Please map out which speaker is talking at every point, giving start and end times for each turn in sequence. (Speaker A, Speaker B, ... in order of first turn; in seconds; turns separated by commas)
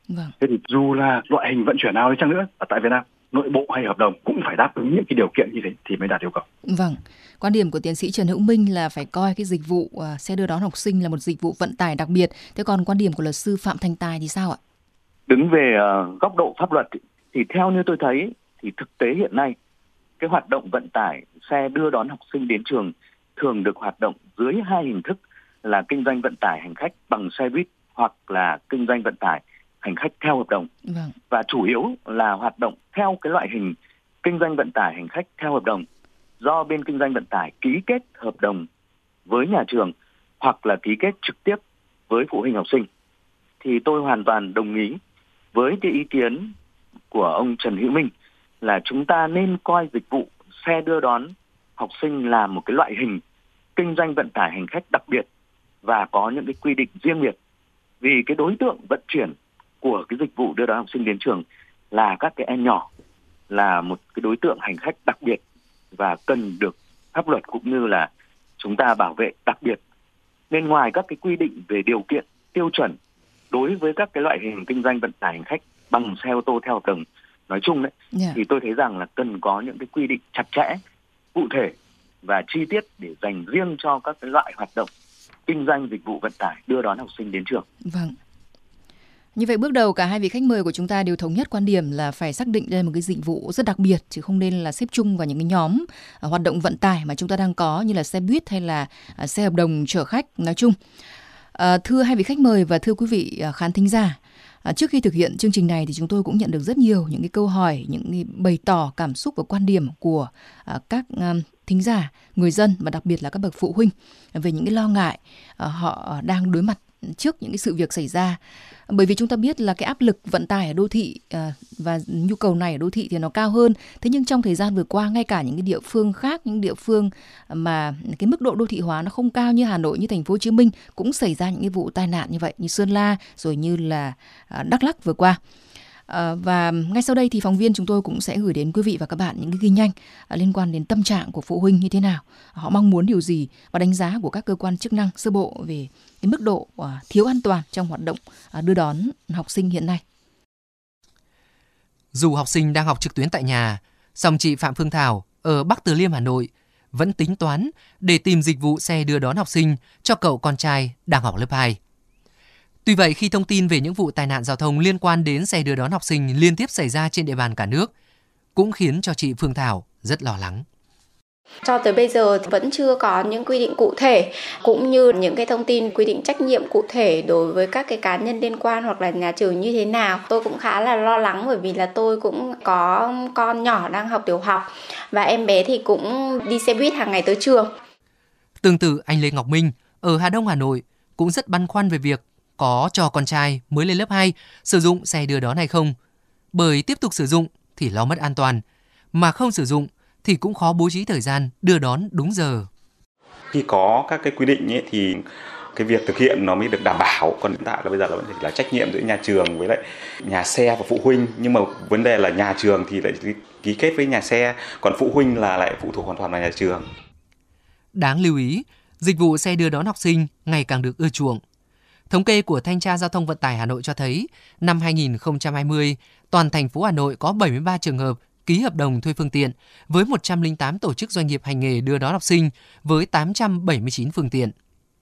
Speaker A: 0.1-0.3, Speaker B: 0.4-6.5, Speaker A: 6.7-14.6, Speaker C: 15.3-19.6, Speaker C: 20.2-30.7, Speaker A: 30.9-31.1, Speaker C: 31.3-35.9, Speaker C: 36.4-38.7, Speaker C: 39.3-42.9, Speaker C: 43.6-45.0, Speaker C: 45.5-46.5, Speaker C: 47.1-53.2, Speaker C: 53.8-55.3, Speaker C: 55.8-57.4, Speaker C: 58.0-62.9, Speaker C: 63.5-65.4, Speaker C: 65.9-69.8, Speaker C: 70.5-73.0, Speaker C: 73.5-80.8, Speaker A: 78.1-78.4, Speaker C: 81.3-84.9, Speaker C: 85.5-87.7, Speaker A: 87.8-88.2, Speaker A: 89.4-100.8, Speaker A: 101.5-135.4, Speaker A: 136.1-150.0, Speaker D: 152.1-161.8, Speaker D: 162.8-167.9, Speaker D: 168.6-170.7, Speaker E: 171.6-187.7, Speaker D: 188.6-196.0, Speaker D: 196.5-198.6, Speaker D: 199.1-202.7, Speaker F: 203.5-216.9, Speaker D: 217.9-221.4, Speaker D: 222.1-234.5